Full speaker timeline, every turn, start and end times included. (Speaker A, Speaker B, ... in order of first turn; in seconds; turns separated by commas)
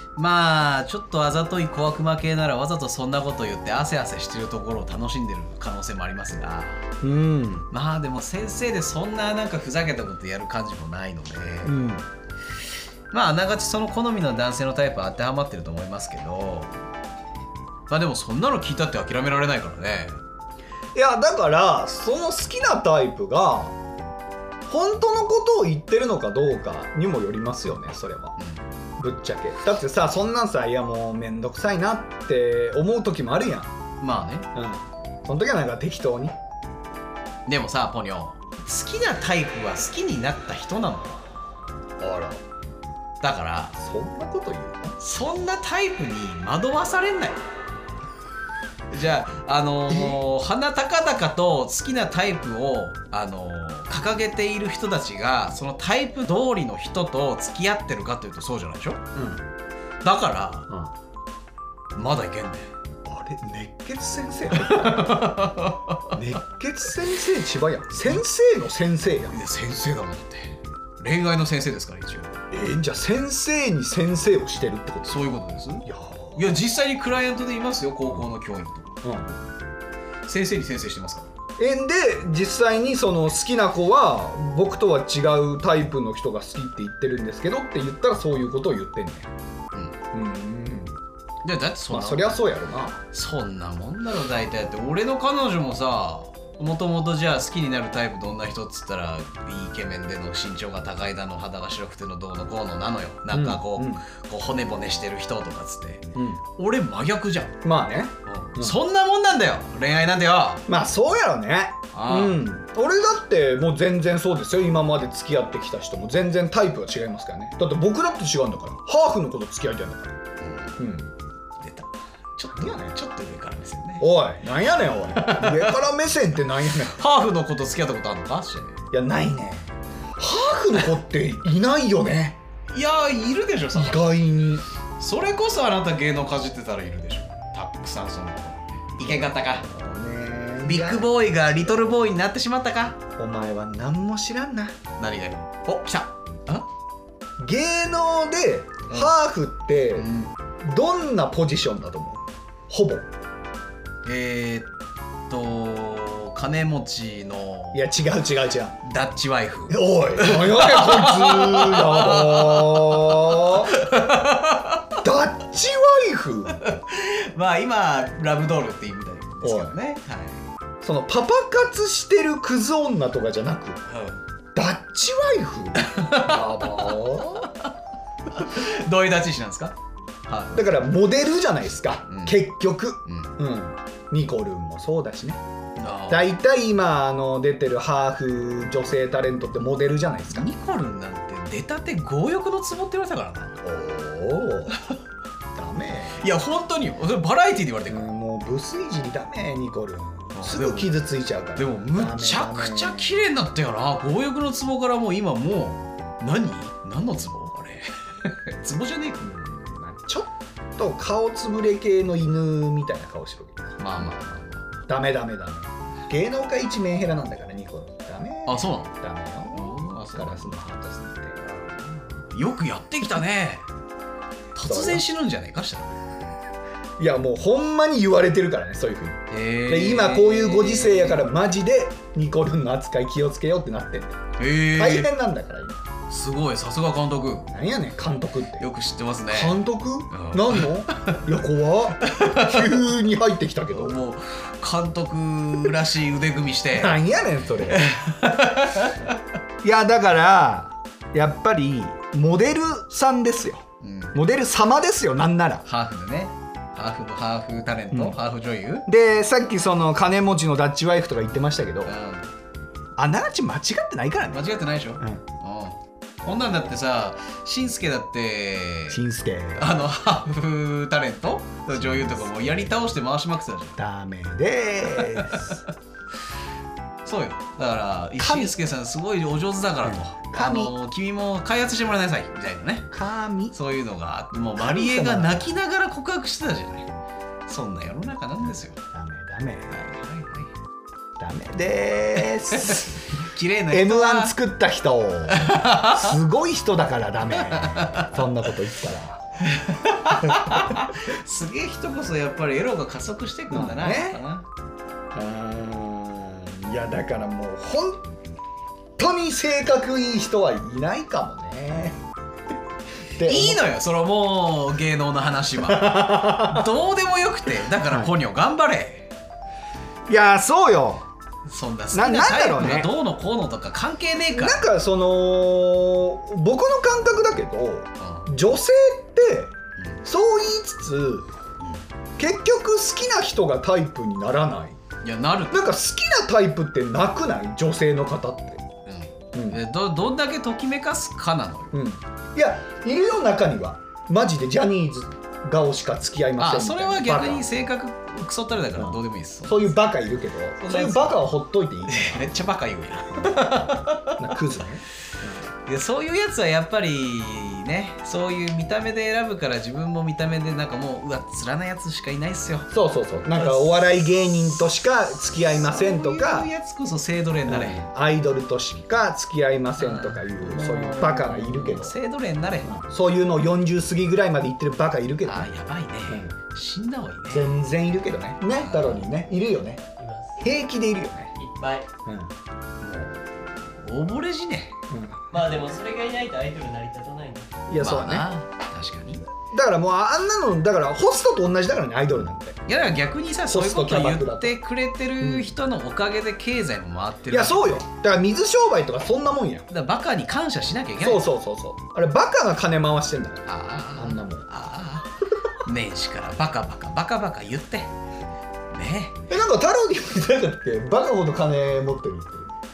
Speaker A: 0.2-6.8, Speaker B: 7.0-7.7, Speaker A: 7.7-11.8, Speaker B: 11.7-12.1, Speaker A: 13.1-16.7, Speaker A: 17.9-20.2, Speaker B: 20.9-23.8, Speaker B: 24.7-28.4, Speaker A: 28.4-28.6, Speaker B: 29.0-33.7, Speaker A: 34.0-34.5, Speaker B: 34.5-36.4, Speaker A: 37.5-41.2, Speaker B: 42.0-42.4, Speaker A: 43.2-43.8, Speaker B: 43.8-45.0, Speaker A: 45.0-47.4, Speaker A: 48.9-59.0, Speaker B: 49.9-50.2, Speaker B: 59.1-59.4, Speaker A: 60.0-60.7, Speaker A: 62.0-62.7, Speaker B: 63.1-65.4, Speaker A: 64.5-66.1, Speaker B: 66.1-69.3, Speaker A: 69.3-72.4, Speaker B: 72.5-75.2, Speaker A: 75.1-79.0, Speaker B: 75.8-76.5, Speaker B: 79.0-79.3, Speaker A: 80.3-81.3, Speaker B: 81.6-89.3, Speaker B: 90.1-91.0, Speaker A: 91.4-92.4, Speaker B: 91.9-93.0, Speaker A: 93.1-107.6, Speaker B: 103.3-104.0, Speaker B: 106.2-106.4, Speaker B: 107.6-108.8, Speaker A: 108.3-110.7, Speaker B: 110.7-120.2, Speaker A: 111.9-112.4, Speaker A: 120.4-120.8, Speaker B: 120.8-121.1, Speaker A: 121.6-124.1, Speaker B: 122.5-122.9, Speaker B: 124.0-127.0, Speaker A: 125.2-125.8, Speaker A: 126.7-128.8, Speaker B: 128.9-132.4, Speaker A: 132.7-134.0, Speaker B: 133.8-134.7, Speaker A: 135.0-139.7, Speaker B: 139.0-141.9, Speaker A: 140.6-143.0, Speaker B: 143.2-144.8, Speaker A: 145.0-146.7, Speaker B: 147.4-150.1, Speaker A: 150.0-150.3, Speaker B: 150.6-153.1, Speaker A: 154.0-154.7, Speaker A: 155.3-157.8, Speaker B: 157.7-158.8, Speaker A: 158.8-165.0, Speaker B: 159.7-163.8, Speaker B: 165.0-166.7, Speaker A: 166.5-170.4, Speaker B: 169.4-169.8, Speaker B: 170.8-173.8, Speaker A: 173.9-174.2, Speaker B: 174.6-177.5, Speaker A: 175.8-177.7, Speaker A: 178.3-179.8, Speaker A: 180.3-180.6, Speaker B: 180.5-185.4, Speaker A: 182.1-182.4, Speaker A: 183.1-183.4, Speaker A: 185.8-186.3, Speaker B: 186.1-190.5, Speaker A: 190.3-193.6, Speaker B: 193.6-194.8, Speaker B: 195.6-196.2, Speaker A: 196.2-198.2, Speaker B: 197.9-203.2, Speaker A: 200.3-201.0, Speaker A: 201.6-209.3, Speaker B: 209.2-214.2, Speaker A: 213.8-214.7, Speaker B: 214.9-221.4, Speaker A: 218.5-218.9, Speaker A: 219.5-220.6, Speaker A: 221.4-223.7, Speaker A: 224.6-226.0, Speaker B: 224.6-225.0, Speaker B: 227.0-234.2, Speaker A: 229.3-231.3, Speaker A: 234.4-235.1, Speaker B: 234.8-235.8, Speaker A: 236.1-237.5, Speaker B: 237.5-238.7, Speaker A: 238.6-239.6, Speaker B: 239.3-244.0, Speaker A: 240.1-241.2, Speaker A: 242.0-242.8, Speaker A: 243.7-247.0, Speaker B: 246.7-247.9, Speaker A: 247.7-249.2, Speaker B: 249.6-255.6, Speaker A: 253.8-254.2, Speaker A: 255.7-258.9, Speaker B: 257.9-258.2, Speaker B: 258.9-261.9, Speaker A: 261.9-262.3, Speaker B: 263.0-264.4, Speaker A: 264.3-269.0, Speaker B: 268.9-269.8, Speaker A: 269.6-273.8, Speaker B: 271.8-272.4, Speaker B: 273.8-275.6, Speaker A: 274.9-275.6, Speaker A: 277.1-282.9, Speaker B: 278.2-278.5, Speaker B: 279.8-280.7, Speaker B: 282.9-283.6, Speaker A: 283.5-286.9, Speaker B: 284.6-285.5, Speaker A: 287.5-288.8, Speaker B: 288.9-289.9, Speaker A: 289.7-290.5, Speaker B: 291.2-293.1, Speaker A: 292.5-294.4, Speaker B: 293.7-299.2, Speaker A: 295.3-296.1, Speaker A: 297.4-298.1, Speaker A: 299.4-304.5, Speaker B: 300.2-300.9, Speaker B: 303.5-304.2, Speaker B: 305.1-308.1, Speaker B: 309.0-312.0, Speaker B: 313.1-313.6, Speaker A: 313.2-319.1, Speaker B: 315.6-316.7, Speaker B: 317.9-318.1, Speaker B: 320.1-321.0, Speaker A: 321.5-324.6, Speaker B: 321.9-322.9, Speaker B: 324.3-331.3, Speaker A: 328.0-328.3, Speaker A: 329.8-330.0, Speaker B: 332.2-334.8, Speaker A: 335.0-335.7, Speaker B: 335.5-338.7, Speaker A: 338.9-341.8, Speaker B: 339.3-339.6, Speaker B: 341.7-347.5, Speaker A: 346.4-349.7, Speaker B: 348.8-352.3, Speaker A: 350.6-351.2, Speaker A: 351.9-354.4, Speaker B: 353.1-353.4, Speaker B: 354.2-355.4, Speaker A: 355.7-362.7, Speaker B: 362.7-366.5, Speaker A: 363.4-364.7, Speaker A: 365.2-367.9, Speaker B: 367.5-372.0, Speaker A: 369.8-372.7, Speaker B: 372.6-375.5, Speaker A: 375.2-377.5, Speaker B: 376.1-376.3, Speaker B: 377.3-379.8, Speaker A: 378.6-379.1, Speaker C: 380.0-380.4, Speaker B: 380.4-381.4, Speaker C: 381.4-381.9, Speaker B: 382.1-382.3, Speaker A: 382.8-384.8, Speaker B: 384.9-385.2, Speaker C: 385.3-387.6, Speaker B: 387.7-388.3, Speaker A: 387.8-389.3, Speaker B: 389.5-392.6, Speaker A: 392.7-397.9, Speaker B: 393.5-394.6, Speaker B: 395.2-395.6, Speaker B: 397.3-399.7, Speaker A: 399.7-401.3, Speaker B: 401.0-404.5, Speaker A: 403.5-407.9, Speaker A: 408.7-409.2, Speaker B: 409.3-412.5